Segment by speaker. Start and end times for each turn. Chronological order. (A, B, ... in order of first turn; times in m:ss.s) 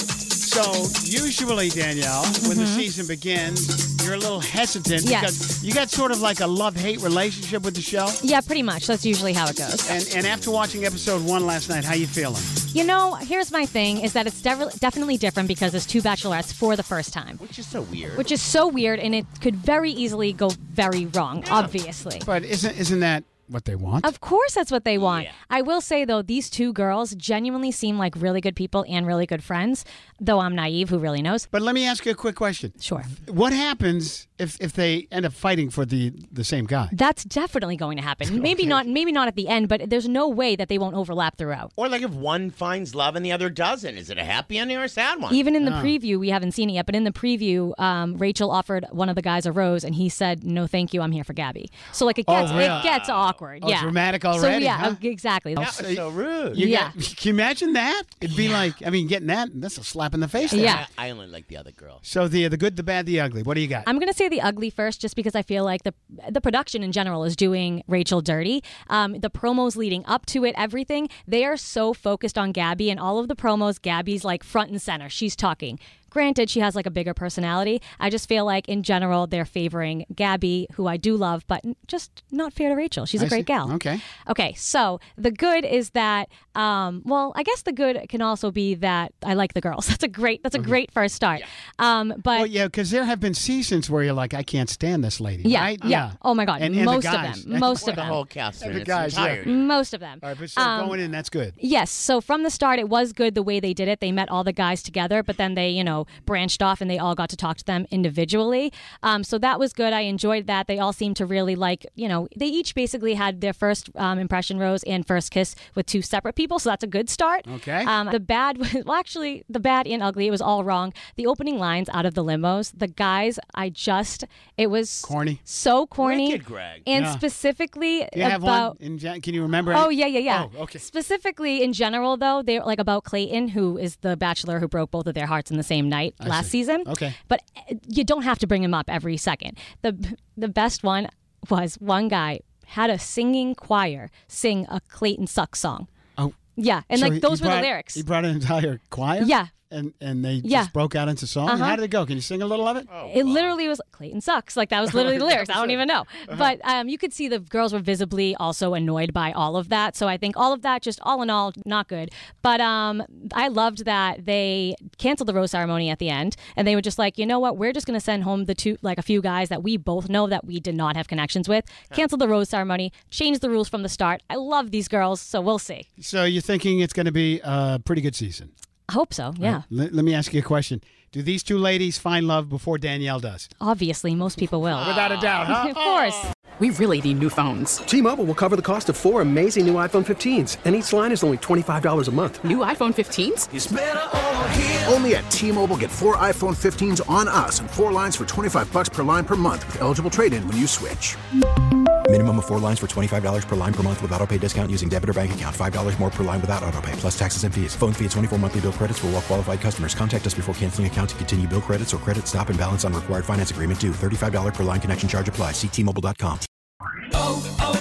0:00.4-0:08.2 A
0:02.4-0:02.8 B
0:05.0-0:05.3 B
0:08.2-0:09.9 B
0:09.8-0:12.6 A
0:12.7-0:17.4 B
0:17.4-0:18.2 C
0:18.2-0:22.2 B
0:21.4-0:21.8 C
0:22.2-0:24.1 A
0:24.0-0:31.4 B
0:25.0-0:25.4 C
0:31.5-0:36.9 A
0:32.8-0:33.1 B
0:36.9-0:41.7 B
0:38.4-0:38.7 A
0:41.8-0:45.4 C
0:45.3-0:55.6 B
0:45.6-0:46.0 A
0:51.8-0:53.4 C
0:52.2-0:53.0 A
0:53.6-0:55.0 A
0:55.5-0:56.7 C
0:55.6-1:00.9 A
0:56.6-0:56.9 B
1:00.3-1:02.0 C
1:00.5-1:00.8 B
1:02.0-1:03.9 A
1:03.8-1:23.7 B
1:23.2-1:24.0 A
1:24.2-1:32.5 B
1:32.3-1:39.5 A
1:35.4-1:38.0 B
1:37.8-1:39.7 C
1:39.4-1:41.0 B
1:40.2-1:41.6 A
1:41.6-2:08.8 B
1:57.4-1:57.9 A
2:05.0-2:05.4 A
2:06.0-2:06.9 C
2:06.9-2:07.2 A
2:08.1-2:10.8 A
2:09.7-2:25.9 B
2:16.2-2:17.2 A
2:26.6-2:28.0 B
2:26.9-2:33.0 A
2:29.3-2:29.5 B
2:30.4-2:30.7 B
2:31.4-2:31.8 B
2:32.9-2:33.5 C
2:33.0-2:55.9 B
2:35.0-2:36.5 A
2:56.0-2:58.5 A
2:58.9-2:59.6 B
2:59.4-3:03.5 A
3:03.6-3:04.9 B
3:04.7-3:06.3 A
3:06.6-3:07.8 D
3:07.9-3:12.4 E
3:12.4-3:13.5 D
3:13.5-3:21.2 F
3:22.1-3:36.5 G